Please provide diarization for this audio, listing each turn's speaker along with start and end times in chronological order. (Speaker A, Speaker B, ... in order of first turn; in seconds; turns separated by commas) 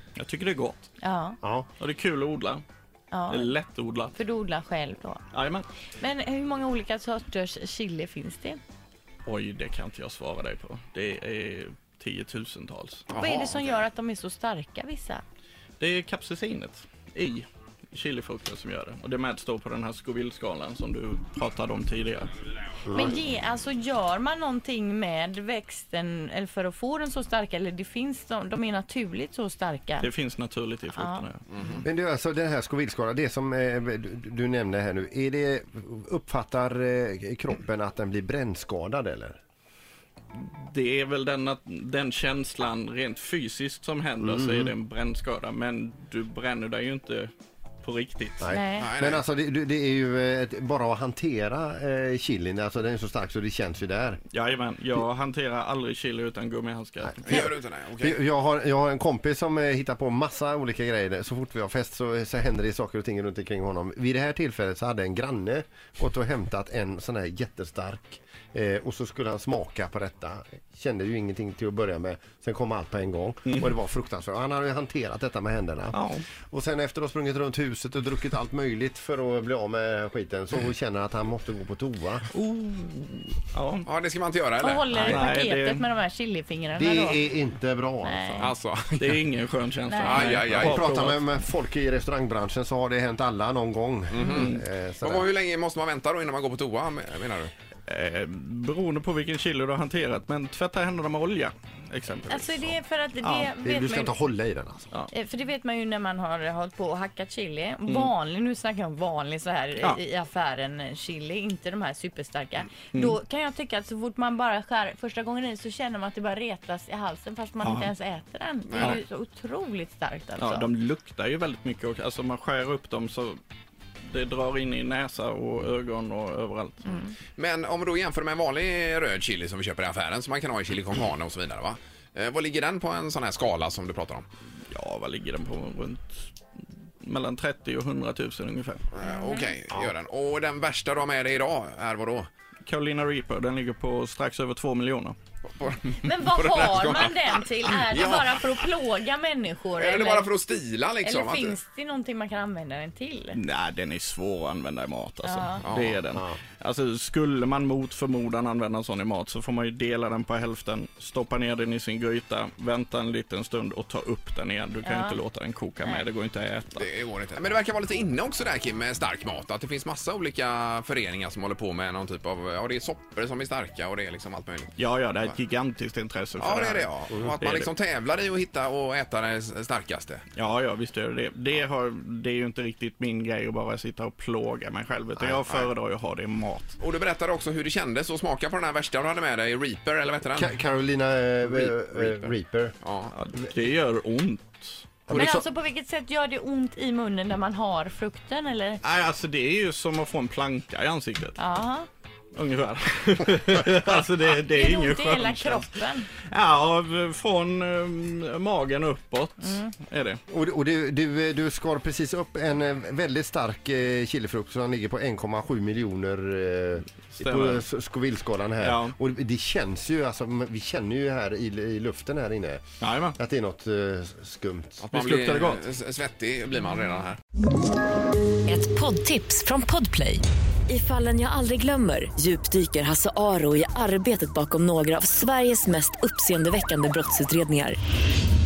Speaker A: 0.1-0.9, Speaker B: 1.0-1.4, Speaker C: 1.4-1.7, Speaker A: 1.8-2.6, Speaker B: 3.1-3.5, Speaker A: 3.3-4.1, Speaker B: 4.1-5.2, Speaker A: 5.3-5.7, Speaker B: 6.0-8.6, Speaker A: 9.2-13.1, Speaker D: 13.1-13.6, Speaker B: 13.1-15.2, Speaker A: 15.8-22.3, Speaker C: 22.9-23.2, Speaker B: 22.9-30.1, Speaker A: 30.0-31.4, Speaker B: 30.9-31.8, Speaker D: 31.6-31.8, Speaker C: 31.8-39.4, Speaker A: 40.3-47.3, Speaker C: 44.2-44.7, Speaker A: 47.8-48.5, Speaker C: 48.4-54.2, Speaker B: 48.5-48.9, Speaker D: 48.8-49.2, Speaker A: 54.3-57.5, Speaker C: 57.1-82.3, Speaker D: 57.2-58.2, Speaker A: 73.4-73.7, Speaker A: 75.9-76.2, Speaker A: 82.3-83.9, Speaker D: 83.8-85.1, Speaker B: 84.6-87.2, Speaker A: 85.0-85.9, Speaker C: 86.8-88.5, Speaker B: 88.0-88.5, Speaker D: 88.4-89.2, Speaker A: 88.9-91.3, Speaker B: 89.9-90.3, Speaker D: 90.0-90.9, Speaker C: 90.5-95.3, Speaker D: 94.1-97.5, Speaker A: 94.2-94.6, Speaker A: 97.8-103.6, Speaker B: 102.3-104.1, Speaker C: 103.6-104.9, Speaker B: 105.1-120.7, Speaker A: 107.8-108.1, Speaker A: 112.9-113.2, Speaker A: 117.6-117.9, Speaker D: 118.7-119.0, Speaker A: 118.8-119.0, Speaker A: 120.4-123.4, Speaker A: 124.0-127.0, Speaker D: 127.4-134.2, Speaker A: 134.7-136.3, Speaker A: 137.0-138.9, Speaker D: 138.9-142.3, Speaker B: 139.0-139.5, Speaker A: 142.7-145.2, Speaker D: 145.6-148.7, Speaker B: 146.0-150.3, Speaker D: 149.8-151.6, Speaker B: 151.0-153.4, Speaker A: 153.3-166.9, Speaker B: 155.2-155.6, Speaker D: 155.6-156.0, Speaker C: 156.1-156.4, Speaker B: 164.8-165.2, Speaker D: 166.7-174.7, Speaker A: 174.8-177.7, Speaker D: 176.4-180.2, Speaker A: 180.3-186.8, Speaker D: 185.4-185.7, Speaker D: 186.8-190.6, Speaker C: 190.3-192.7, Speaker A: 191.5-192.3, Speaker D: 192.8-193.1, Speaker A: 193.1-195.0, Speaker C: 195.1-195.4, Speaker B: 195.1-198.8, Speaker A: 198.8-201.4, Speaker B: 201.4-201.9, Speaker A: 202.3-210.2, Speaker B: 204.5-206.1, Speaker B: 209.5-209.7, Speaker C: 210.3-222.6, Speaker A: 217.2-217.7, Speaker A: 218.6-218.9, Speaker A: 222.8-223.2, Speaker C: 223.2-224.8, Speaker D: 224.8-227.2, Speaker A: 224.9-225.6, Speaker E: 228.5-237.8